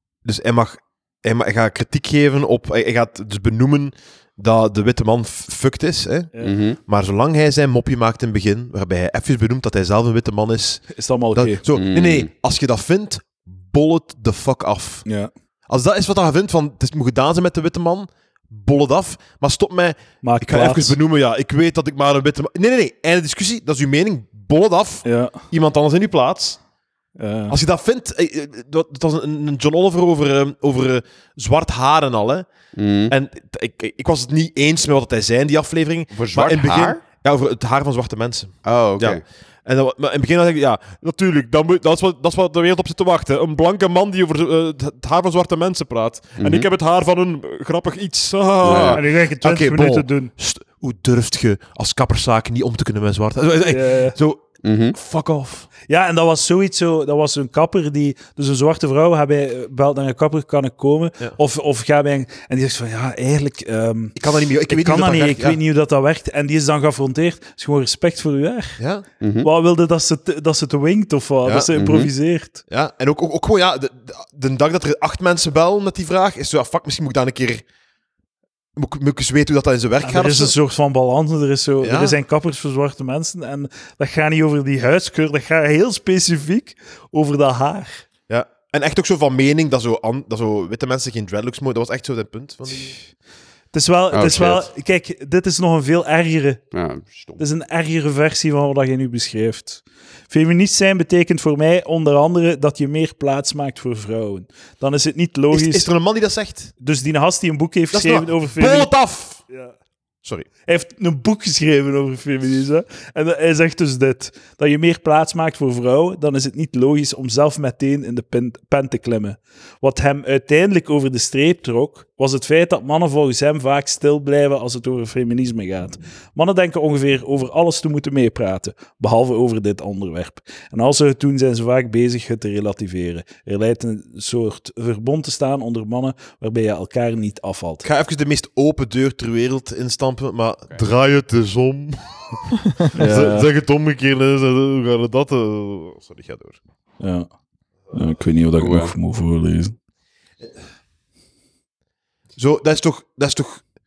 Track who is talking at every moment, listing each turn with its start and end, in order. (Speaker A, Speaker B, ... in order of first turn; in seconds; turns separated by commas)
Speaker A: 0.2-6.3, Speaker B: 6.4-6.8, Speaker A: 6.9-15.1, Speaker C: 10.9-11.6, Speaker B: 11.7-12.3, Speaker C: 15.1-15.3, Speaker A: 15.7-26.6, Speaker C: 20.2-21.0, Speaker C: 25.0-25.4, Speaker C: 27.2-27.6, Speaker A: 27.5-32.5, Speaker B: 32.7-33.1, Speaker A: 33.1-55.7, Speaker B: 36.1-37.0, Speaker B: 38.6-39.2, Speaker B: 46.4-46.7, Speaker B: 48.6-49.0, Speaker C: 48.9-50.3, Speaker C: 53.7-54.2, Speaker B: 54.6-55.0, Speaker C: 55.9-68.8, Speaker A: 64.2-65.6, Speaker A: 68.8-69.0, Speaker B: 69.2-69.5, Speaker C: 69.4-72.6, Speaker A: 71.5-71.7, Speaker B: 71.8-72.1, Speaker A: 72.7-77.6, Speaker A: 78.8-80.5, Speaker C: 80.0-88.0, Speaker A: 81.8-82.2, Speaker A: 88.3-93.0, Speaker C: 93.7-96.7, Speaker B: 94.1-94.7, Speaker B: 96.7-97.4, Speaker C: 97.4-105.9, Speaker A: 105.5-106.7, Speaker C: 106.8-109.7, Speaker A: 107.9-109.4, Speaker C: 110.7-137.8, Speaker A: 137.8-146.6, Speaker C: 142.9-143.5, Speaker C: 147.0-147.3, Speaker C: 147.9-149.7, Speaker B: 148.6-148.9, Speaker A: 152.4-153.6